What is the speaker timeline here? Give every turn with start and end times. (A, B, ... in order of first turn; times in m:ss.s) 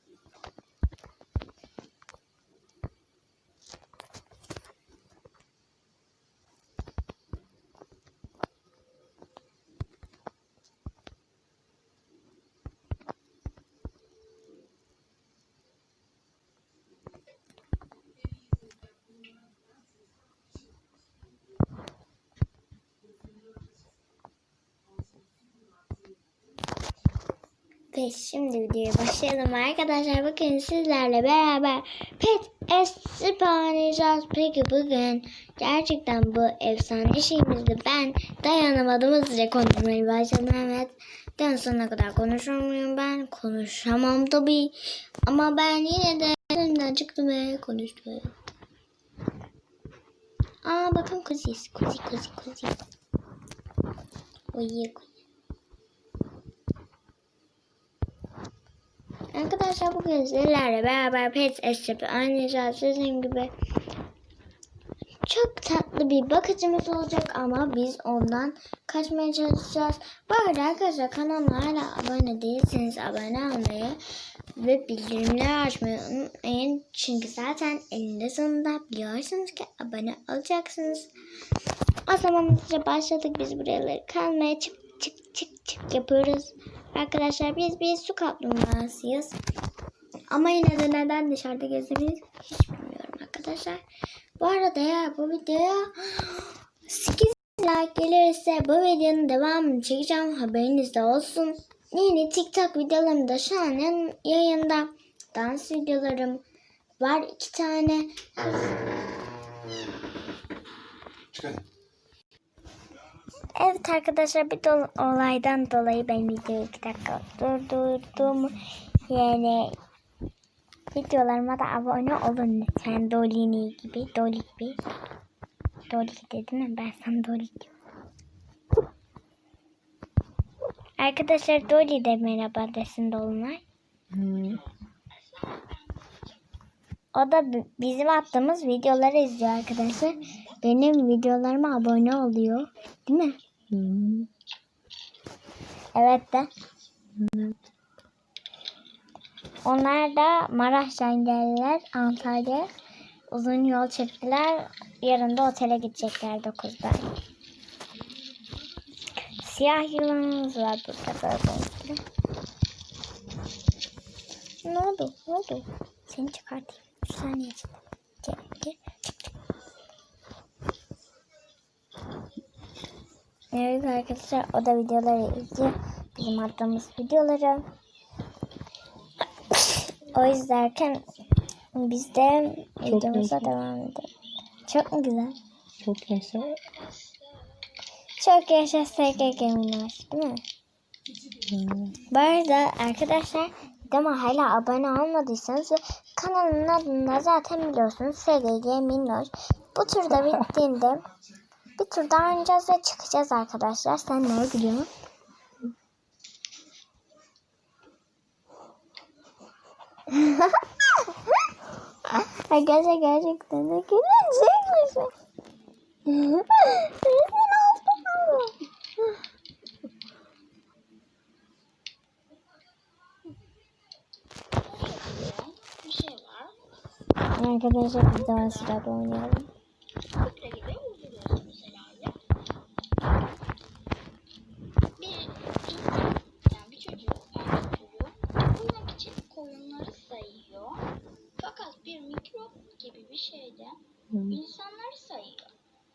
0:27.9-0:48.3 A
0:50.6-0:52.8 A
0:54.5-0:55.1 A
0:59.3-1:03.5 A
1:05.3-1:14.0 A
1:14.6-1:21.1 A
1:22.1-1:29.4 A
1:30.3-1:33.8 A
1:34.4-1:46.4 A
1:47.0-1:48.5 A
1:53.5-1:59.8 A
2:00.9-2:04.8 A
2:05.9-2:07.7 A
2:11.0-2:13.6 A
2:14.1-2:14.6 B
2:15.1-2:16.3 C
2:17.1-2:23.4 A
2:23.7-2:24.3 B
2:26.0-2:26.5 A
2:27.2-2:27.6 B
2:29.6-2:32.7 A
2:33.3-2:37.1 A
2:39.3-2:42.0 A
2:44.6-2:49.3 A
2:53.5-2:57.7 A
2:59.5-3:01.0 A
3:01.8-3:04.1 A
3:02.9-3:03.5 B
3:04.7-3:05.4 A
3:05.8-3:06.6 B
3:06.3-3:07.5 C
3:08.2-3:10.4 A
3:11.5-3:12.0 B
3:12.1-3:21.0 A
3:21.8-3:24.9 A
3:30.1-3:31.1 A
3:32.1-3:35.1 A
3:36.1-3:39.0 A
3:44.6-3:46.6 C
3:47.4-3:49.5 A
3:48.2-3:48.8 C
3:50.2-3:52.2 C
3:55.0-4:00.8 C
4:01.4-4:05.5 C
4:04.1-4:04.4 B